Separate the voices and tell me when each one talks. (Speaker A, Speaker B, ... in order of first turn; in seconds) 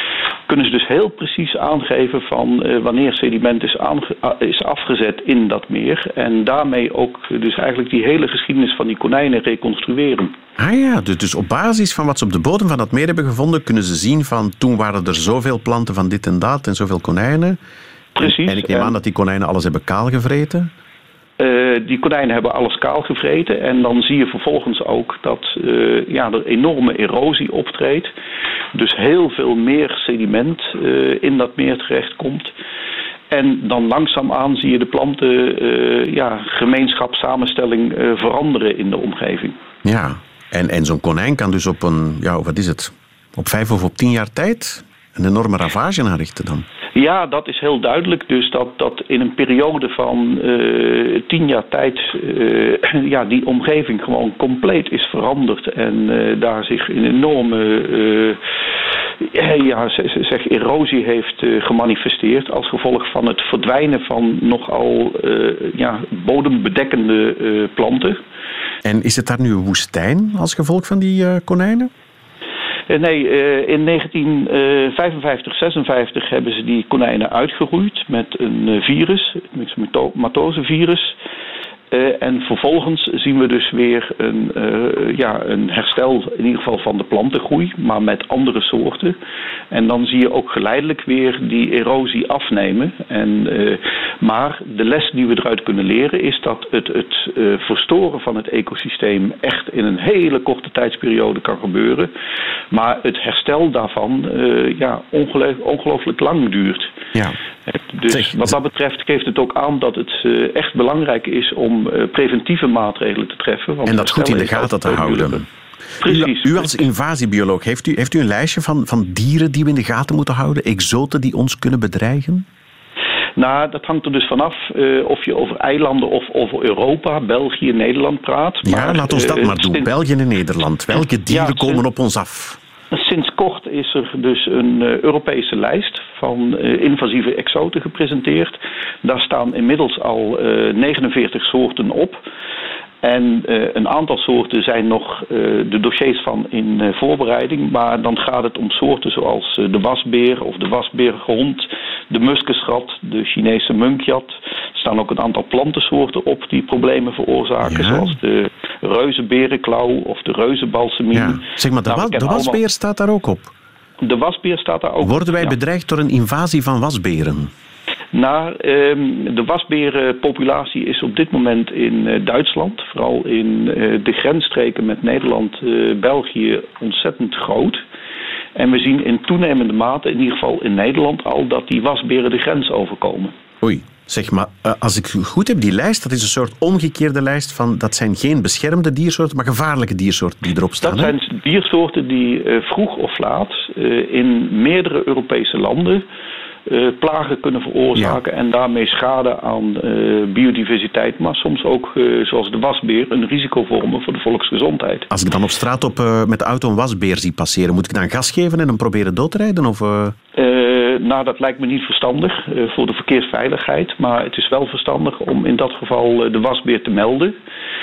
Speaker A: 0.5-10.3, 18.2-18.9, 21.4-28.1, 28.7-32.5, 33.3-39.6, 47.0-58.4, 59.2-68.2, 72.9-81.2, 81.9-89.2, 89.7-102.1, 102.7-107.0, 107.7-115.4, 116.0-116.8, 123.4-129.9, 131.3-131.8, 132.9-142.2, 143.0-162.6, 164.0-165.6, 168.1-177.8, 178.6-183.3, 190.8-196.1, 196.7-205.1, 210.4-217.3
Speaker B: 10.6-17.6, 18.2-20.7, 39.8-46.6, 68.8-71.9, 108.1-108.5, 113.9-115.5, 116.0-122.5, 128.6-132.6, 157.6-158.2, 161.1-163.5, 165.0-167.5, 183.6-191.2, 197.9-198.2, 205.1-210.2